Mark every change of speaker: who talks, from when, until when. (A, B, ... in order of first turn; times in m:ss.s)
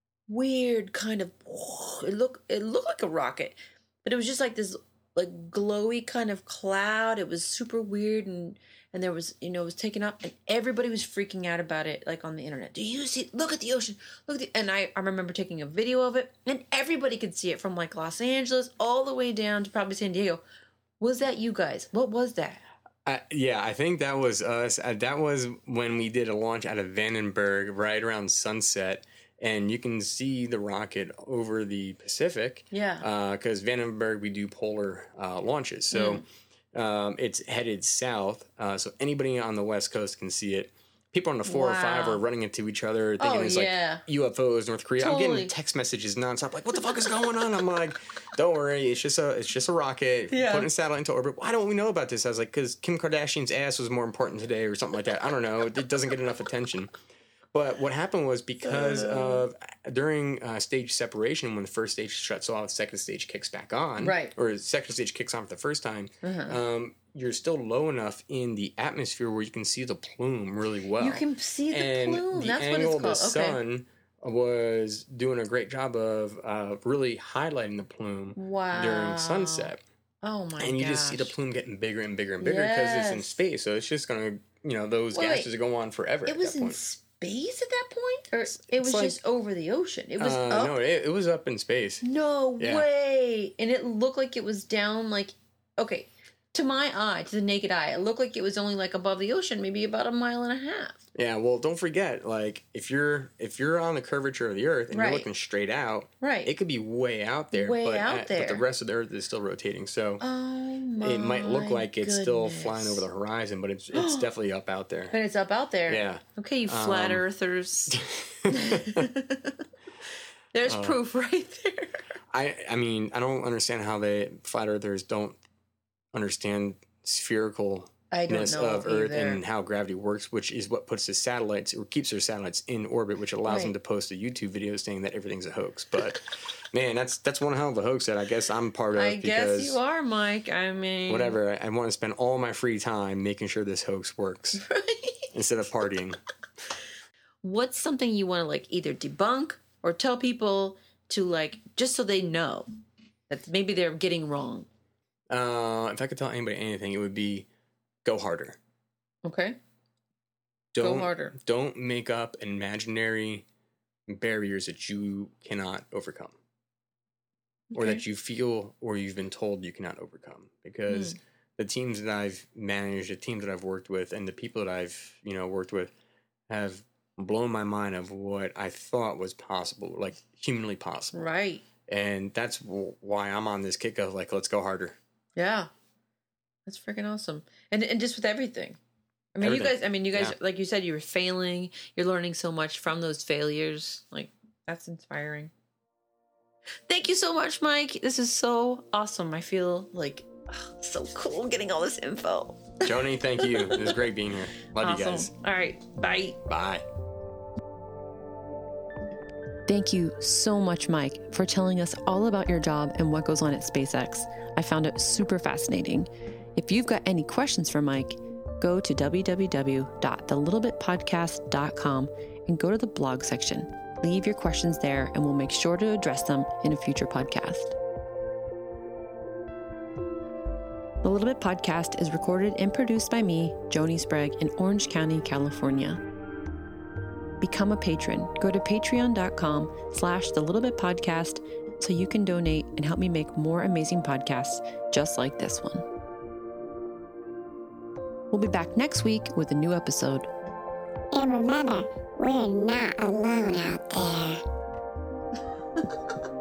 0:00.3-0:20.4 A
0:21.0-0:22.6 A
0:23.0-0:36.2 B
0:32.7-0:33.1 A
0:35.9-0:36.2 A
0:36.7-0:56.9 B
0:41.4-0:42.2 A
0:43.2-0:44.0 A
0:45.0-0:45.5 A
0:50.3-0:50.7 A
0:57.5-1:19.8 B
0:58.7-0:59.4 A
1:04.0-1:04.3 A
1:06.2-1:06.6 A
1:11.0-1:13.6 A
1:18.4-1:19.7 A
1:20.2-1:21.3 A
1:20.6-1:26.8 B
1:22.4-1:23.4 A
1:25.1-1:25.5 A
1:26.3-1:30.7 A
1:28.7-1:29.2 B
1:30.2-1:32.0 B
1:32.0-1:41.0 A
1:32.6-1:32.9 B
1:41.2-1:50.2 B
1:44.9-1:45.3 A
1:46.2-1:46.5 A
1:47.5-1:48.6 A
1:50.2-1:53.0 A
1:51.0-1:55.2 B
1:53.9-1:54.3 A
1:55.1-1:59.6 A
1:55.9-1:57.2 B
1:57.9-1:59.1 B
2:00.5-2:02.1 A
2:00.7-2:01.0 B
2:02.3-2:05.4 B
2:06.1-2:19.8 B
2:08.1-2:09.4 A
2:13.5-2:13.7 A
2:19.0-2:21.4 A
2:21.1-2:24.6 B
2:24.6-2:25.3 A
2:25.3-2:26.2 B
2:27.4-2:32.7 A
2:33.3-2:34.7 A
2:35.3-2:37.5 B
2:38.0-2:38.6 B
2:39.2-2:39.6 A
2:40.7-2:43.4 B
2:40.8-2:41.4 A
2:44.1-2:46.4 B
2:47.7-2:48.0 A
2:47.8-2:55.9 B
2:50.9-2:51.2 A
2:56.5-3:01.3 B
3:01.1-3:01.6 A
3:01.9-3:05.0 B
3:05.4-3:05.7 A
3:06.7-3:08.8 A
3:09.4-3:15.5 A
3:09.4-3:10.4 B
3:16.9-3:24.0 A
3:22.8-3:25.3 B
3:24.8-3:26.4 A
3:26.5-3:26.8 B
3:29.7-3:47.8 A
3:51.0-3:56.0 A
3:57.4-4:05.8 A
4:08.3-4:10.3 A
4:11.1-4:14.4 C